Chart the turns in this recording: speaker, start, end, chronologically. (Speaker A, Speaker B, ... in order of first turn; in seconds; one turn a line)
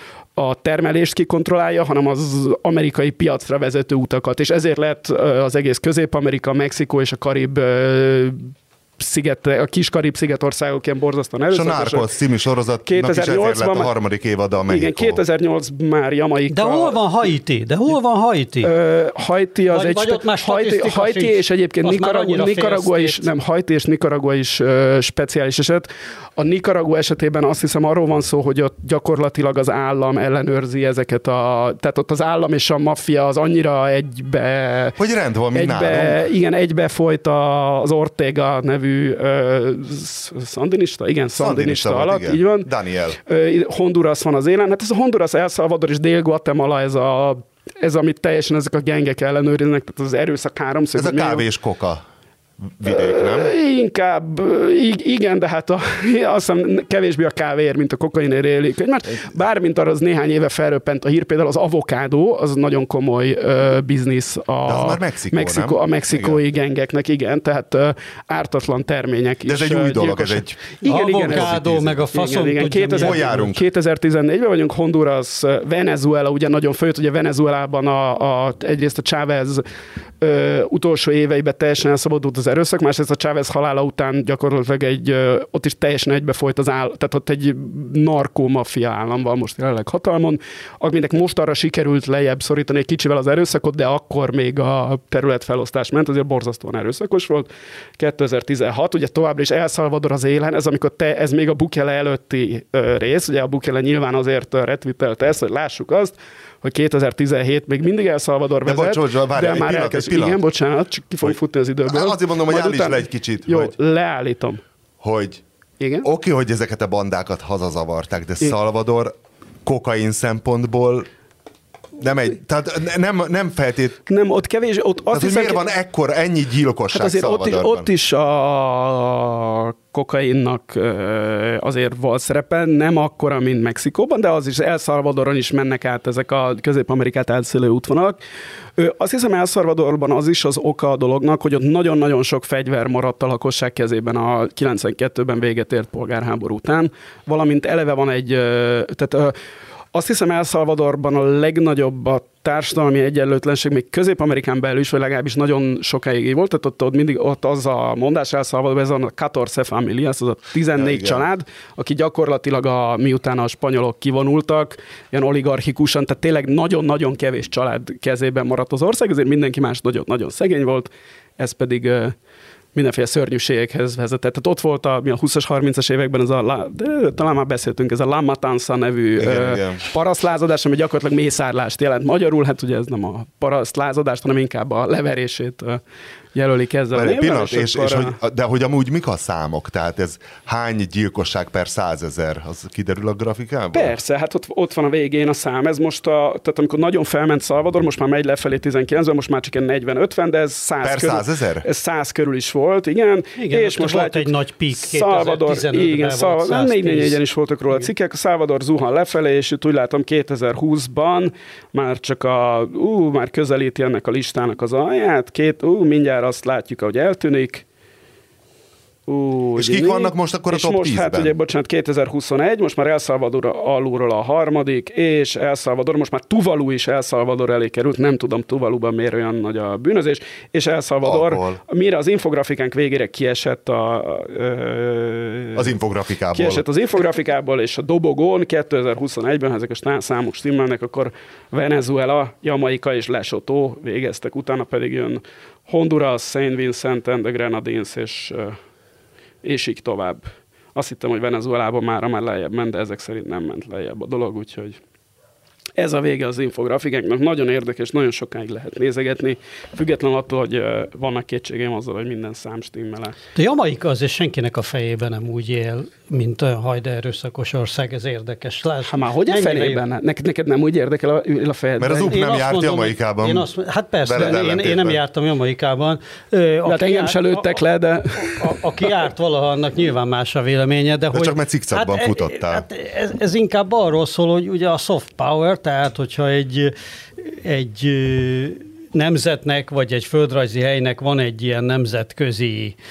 Speaker A: 0.3-12.1
Speaker B: 11.5-15.2
Speaker A: 12.8-13.9
Speaker A: 14.7-17.0
Speaker C: 16.5-18.7
Speaker A: 18.6-35.0
Speaker C: 19.7-23.2
Speaker B: 35.0-36.2
Speaker A: 35.5-42.7
Speaker B: 41.4-43.2
Speaker A: 43.2-51.4
Speaker B: 50.9-52.0
Speaker B: 52.6-53.5
Speaker A: 52.9-79.6
Speaker B: 64.7-66.4
Speaker B: 69.5-70.6
Speaker C: 70.8-73.4
Speaker B: 71.3-71.9
Speaker B: 73.0-73.6
Speaker A: 80.2-114.6
Speaker B: 108.6-110.4
Speaker B: 111.9-113.7
Speaker B: 115.0-115.4
Speaker A: 115.8-116.1
Speaker B: 116.0-119.1
Speaker B: 119.6-121.1
Speaker B: 122.0-124.0
Speaker A: 124.1-125.6
Speaker B: 125.1-127.9
Speaker A: 126.9-138.2
Speaker A: 138.8-149.3
Speaker A: 149.9-172.1
Speaker B: 160.7-161.2
Speaker A: 172.7-185.8
Speaker B: 179.2-179.8
Speaker A: 186.3-188.2
Speaker B: 186.9-194.0
Speaker A: 193.7-217.6
Speaker B: 200.8-201.6
Speaker C: 203.4-207.2
Speaker A: 219.1-235.7
Speaker B: 219.6-221.3
Speaker B: 231.0-231.6
Speaker B: 235.5-236.7
Speaker A: 236.3-248.6
Speaker A: 249.4-254.8
Speaker A: 255.8-263.1
Speaker C: 263.3-269.8
Speaker A: 268.9-272.2
Speaker B: 271.8-273.5
Speaker C: 272.0-277.6
Speaker B: 274.0-275.0
Speaker A: 276.7-278.5
Speaker C: 278.2-292.8
Speaker B: 281.1-282.6